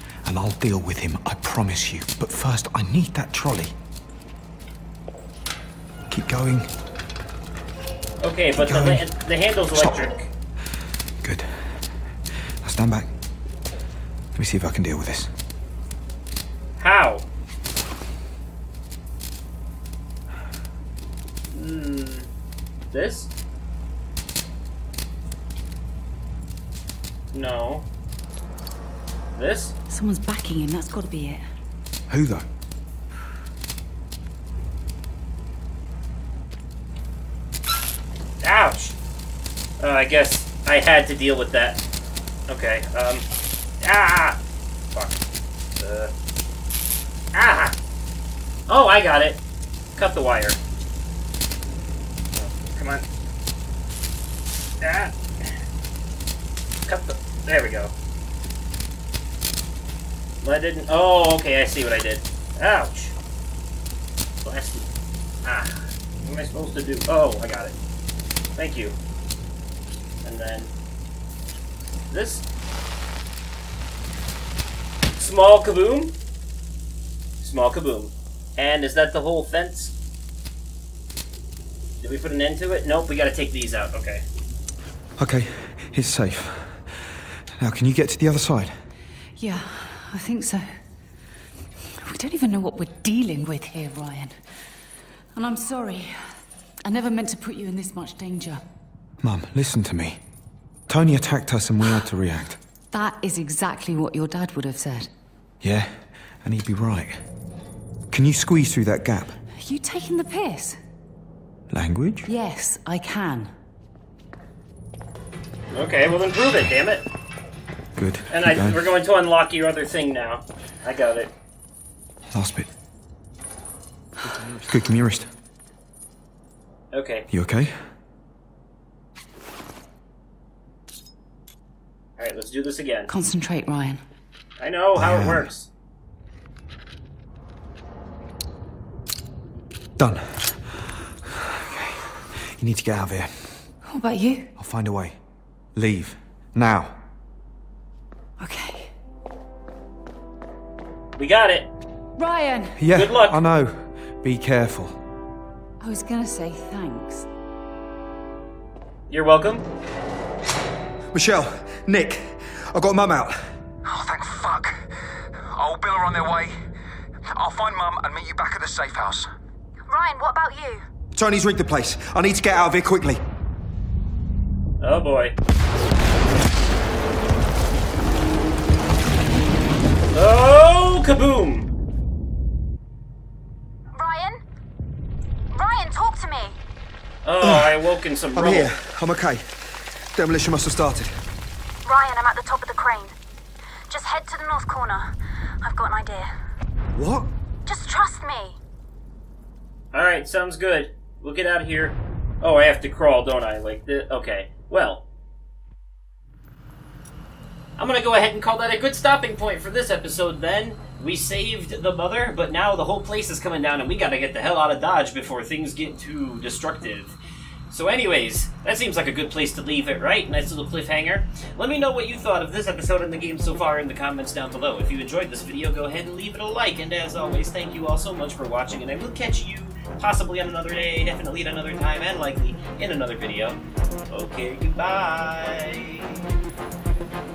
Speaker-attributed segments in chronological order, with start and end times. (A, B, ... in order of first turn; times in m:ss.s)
0:00.2-0:03.7 A
0:06.1-0:06.7 A
0:08.2-0:10.3 B
0:08.5-0:09.0 A
0:09.7-0:10.0 A
0:11.2-0:12.1 A
0:12.6-0:13.1 A
0:14.3-0:15.3 A
0:16.8-0:17.2 B
0:21.5-0:22.3 B
0:22.9-0:23.3 B
0:27.3-0:27.9 B
0:29.4-0:29.7 B
0:29.9-0:31.4 C
0:32.1-0:32.4 A
0:38.4-0:39.0 B
0:39.8-0:41.8 B
0:42.5-0:43.2 B
0:43.8-0:44.4 B
0:44.9-0:45.2 B
0:45.8-0:46.1 B
0:47.3-0:47.7 B
0:48.7-0:49.4 B
0:50.0-0:50.6 B
0:52.4-0:53.0 B
0:54.8-0:55.2 B
0:56.9-0:57.9 B
1:00.4-1:03.1 B
1:04.4-1:04.9 B
1:05.4-1:07.7 B
1:08.6-1:08.9 B
1:10.2-1:10.7 B
1:12.1-1:12.4 B
1:15.2-1:16.1 B
1:17.4-1:19.9 B
1:22.0-1:24.2 B
1:25.2-1:28.8 A
1:29.4-1:30.8 C
1:32.0-1:34.4 C
1:35.3-1:38.6 C
1:39.2-1:40.2 A
1:40.9-1:42.6 A
1:42.9-1:45.1 C
1:45.6-1:47.2 A
1:48.1-1:49.4 A
1:49.6-1:50.8 C
1:51.7-1:52.3 A
1:52.2-1:53.5 C
1:55.7-1:57.0 B
1:58.0-1:58.9 A
1:58.3-2:01.3 B
2:02.3-2:02.7 A
2:04.6-2:05.3 A
2:06.9-2:07.3 B
2:07.3-2:07.9 A
2:12.2-2:13.1 B
2:13.1-2:14.0 C
2:14.6-2:15.7 B
2:14.9-2:15.5 A
2:20.0-2:23.7 A
2:23.8-2:24.5 C
2:24.6-2:25.2 A
2:25.7-2:27.0 A
2:28.4-2:28.9 C
2:31.2-2:31.7 B
2:32.2-2:32.8 C
2:32.8-2:35.0 A
2:32.9-2:33.4 B
2:35.8-2:37.3 C
2:39.1-2:39.7 B
2:41.1-2:43.5 A
2:43.8-2:44.9 D
2:45.5-2:46.5 D
2:47.3-2:49.3 D
2:49.9-2:50.8 E
2:51.1-2:53.2 A
2:54.8-2:55.3 B
3:00.1-3:01.7 B
3:03.9-3:04.4 E
3:05.5-3:06.6 E
3:07.2-3:08.7 B
3:07.4-3:07.8 A
3:08.3-3:11.1 A
3:11.8-3:13.1 E
3:13.9-3:15.1 E
3:15.6-3:16.3 E
3:16.9-3:17.3 A
3:17.6-3:18.6 E
3:19.9-3:25.0 B
3:27.8-3:37.1 B
3:37.7-3:56.2 B